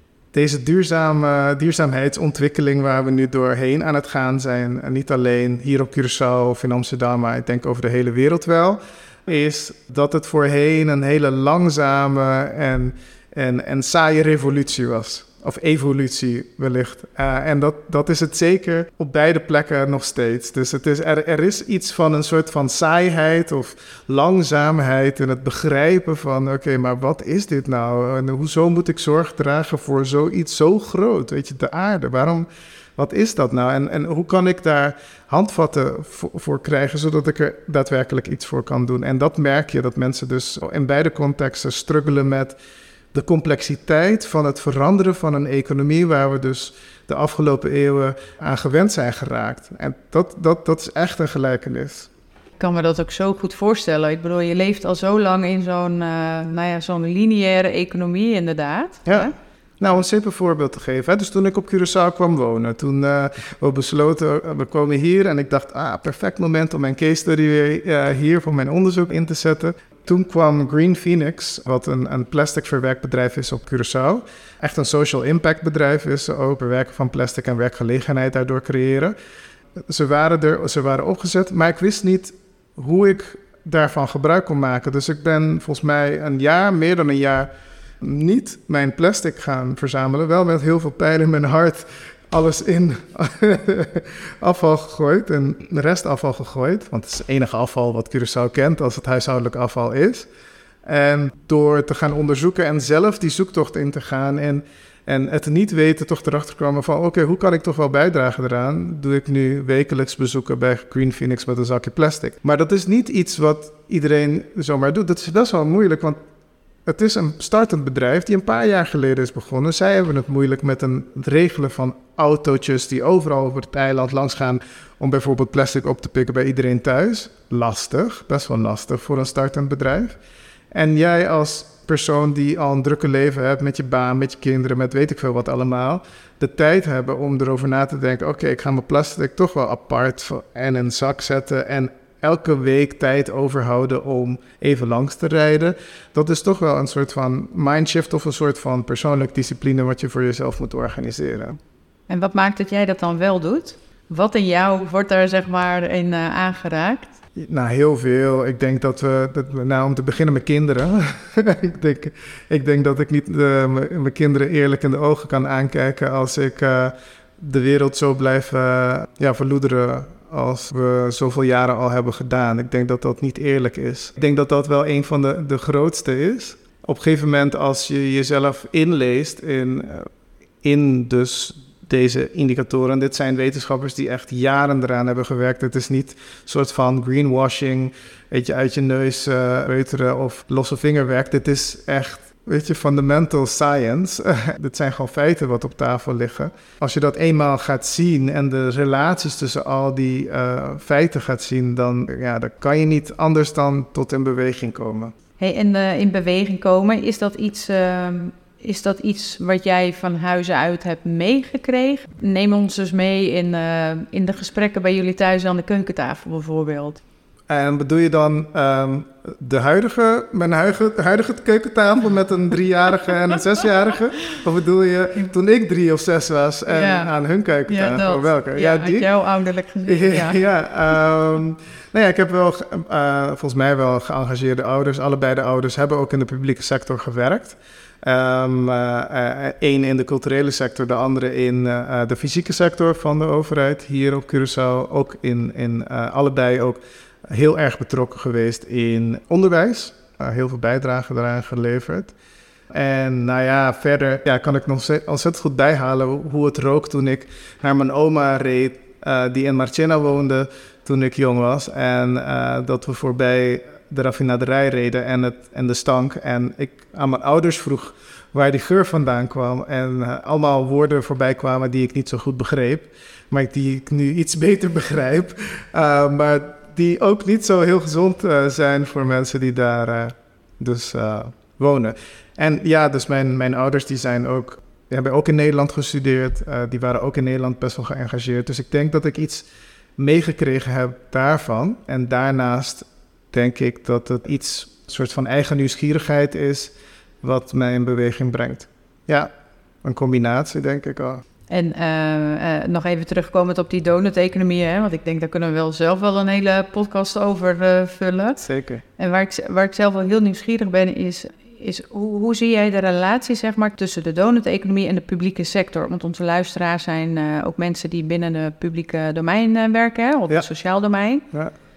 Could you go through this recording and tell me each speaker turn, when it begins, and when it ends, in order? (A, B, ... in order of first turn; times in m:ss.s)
0:00.3-0:32.4 A
0:33.0-0:42.6 A
0:43.1-0:52.1 A
0:52.6-0:59.3 B
0:59.0-1:19.1 A
1:19.9-1:27.5 A
1:28.0-1:40.3 A
1:40.8-1:56.2 A
1:56.8-2:10.2 A
2:10.7-2:31.6 A
2:32.1-2:37.1 B
2:37.4-3:00.1 A
3:00.6-3:25.1 A
3:25.4-3:37.0 B
3:37.5-3:49.1 A
3:46.7-3:47.1 B
3:47.7-3:50.4 B
3:49.9-4:12.1 A
4:12.7-4:59.3 A
4:59.8-5:01.2 A
5:01.5-5:08.4 B
5:08.4-5:08.8 A
5:09.0-5:21.2 B